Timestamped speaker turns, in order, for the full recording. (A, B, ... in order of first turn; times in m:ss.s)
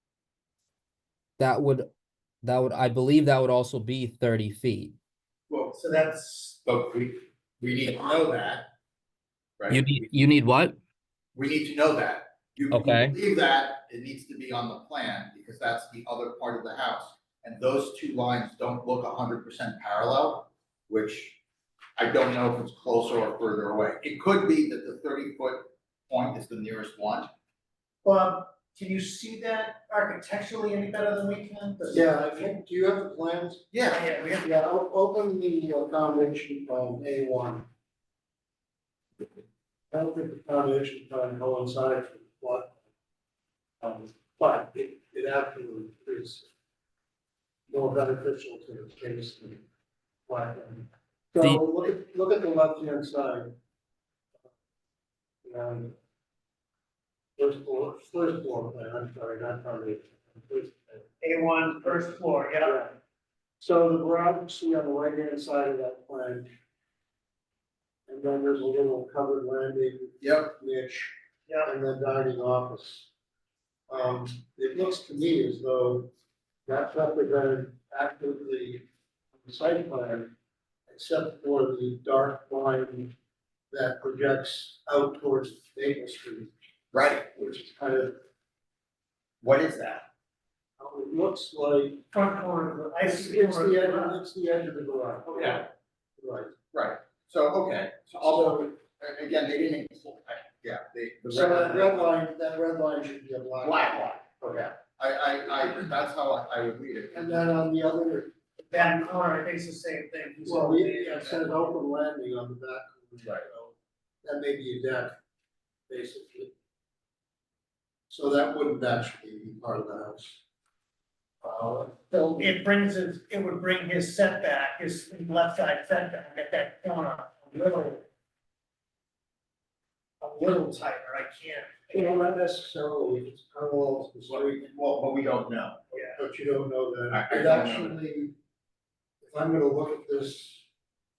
0:01.4-0:01.9 A
0:02.4-0:05.0 A
0:05.5-0:05.7 B
0:05.7-0:06.6 C
0:06.6-0:08.7 B
0:09.6-0:10.1 B
0:09.7-0:10.8 A
0:11.3-0:21.4 B
0:12.7-0:13.1 A
0:22.0-0:27.3 B
0:28.0-0:32.0 C
0:31.9-0:33.6 D
0:33.7-0:34.1 B
0:33.9-0:34.5 C
0:34.4-0:37.7 D
0:39.9-0:42.8 D
0:43.8-0:46.5 D
0:47.7-0:49.6 D
0:50.3-0:53.5 D
0:55.4-0:55.9 D
0:57.4-1:01.0 D
1:01.2-1:02.8 C
1:02.6-1:02.9 D
1:03.6-1:06.5 D
1:08.1-1:13.1 D
1:10.2-1:10.5 B
1:13.9-1:16.1 D
1:16.6-1:18.8 D
1:19.4-1:20.3 D
1:20.9-1:23.1 D
1:23.7-1:26.5 D
1:26.9-1:27.3 B
1:27.3-1:28.2 D
1:29.4-1:30.1 B
1:30.8-1:32.0 D
1:32.1-1:34.2 C
1:33.0-1:36.5 D
1:35.3-1:35.6 B
1:36.7-1:42.1 B
1:38.2-1:38.7 D
1:41.3-1:44.7 D
1:43.6-1:47.4 B
1:47.1-1:48.9 D
1:48.7-1:51.5 C
1:50.4-1:55.2 D
1:55.9-1:56.5 D
1:58.1-2:00.4 D
2:01.4-2:08.0 C
2:10.2-2:12.2 C
2:11.9-2:14.6 D
2:14.3-2:15.8 B
2:15.9-2:16.2 C
2:16.2-2:18.3 D
2:17.1-2:18.0 B
2:19.2-2:20.6 D